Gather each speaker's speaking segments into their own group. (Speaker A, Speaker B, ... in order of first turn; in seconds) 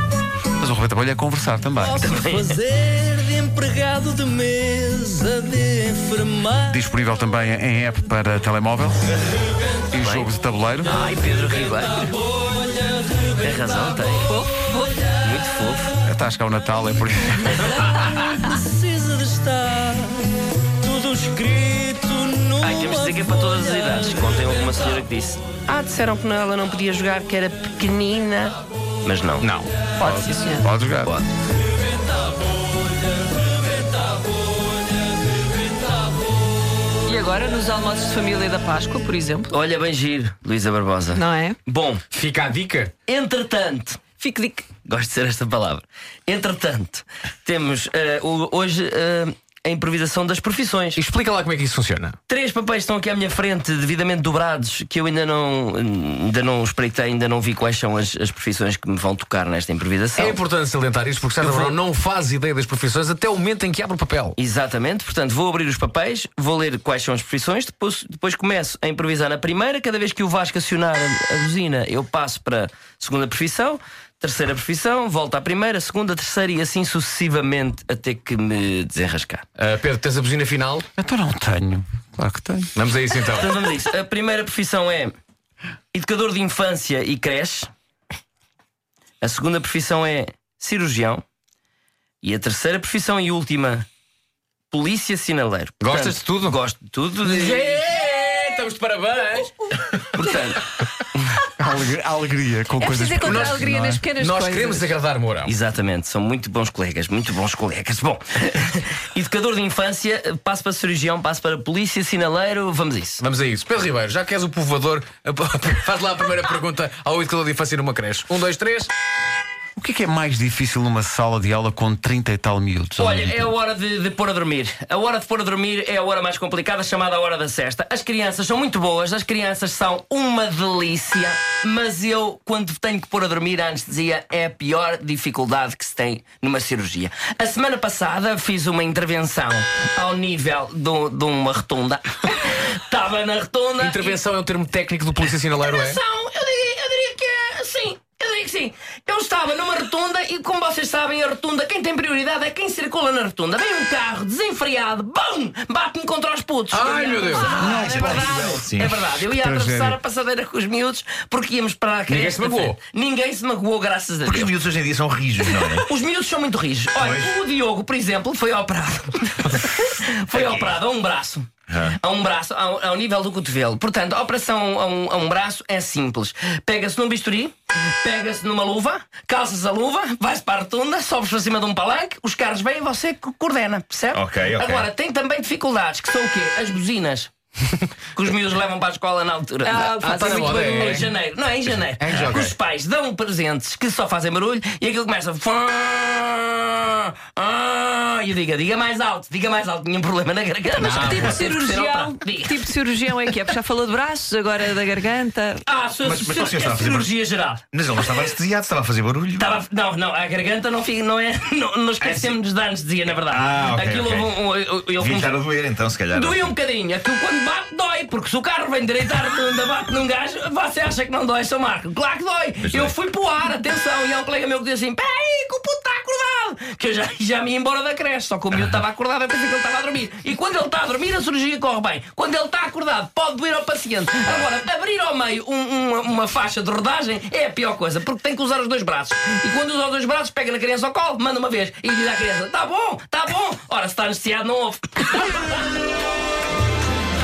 Speaker A: 0.6-2.1, 6.6-9.0, 9.9-11.0, 16.0-17.8, 30.0-31.1, 81.0-82.7, 101.6-104.0, 119.8-123.5, 157.5-160.0
Speaker B: 1.9-2.6, 9.9-10.3, 10.8-12.2, 13.4-14.3, 15.2-15.9, 18.4-18.8, 22.6-29.5, 31.0-31.3, 39.5-42.0, 43.1-51.0, 52.3-60.4, 64.4-79.4, 83.3-85.1, 85.9-87.7, 89.2-91.2, 92.2-93.8, 94.7-97.9, 100.1-100.6, 105.4-113.2, 123.0-144.2, 145.4-164.5, 165.4-187.3, 188.1-202.6, 205.7-208.3, 209.3-215.5, 216.1-245.6
Speaker C: 2.6-6.6, 18.8-20.2, 20.8-22.8
Speaker D: 14.3-15.1, 17.8-18.5, 30.0-30.6, 37.0-39.5, 41.1-41.6, 102.8-104.9, 157.2-158.2, 189.7-191.1, 200.7-205.6
Speaker E: 29.4-29.7, 42.1-42.9, 51.0-52.2, 60.1-64.4, 79.6-80.8, 82.7-83.6, 95.8-96.6, 97.2-100.1, 103.2-105.5, 113.2-118.9, 143.8-146.0, 156.7-158.1, 162.1-162.8, 189.7-191.1, 192.0-192.5
Speaker F: 157.7-159.0, 164.2-165.9, 167.0-167.4, 170.3-170.7, 171.7-171.9, 184.1-184.9, 200.9-201.4, 206.0-207.1, 207.7-209.6, 212.0-212.3, 213.2-216.5, 222.6-222.9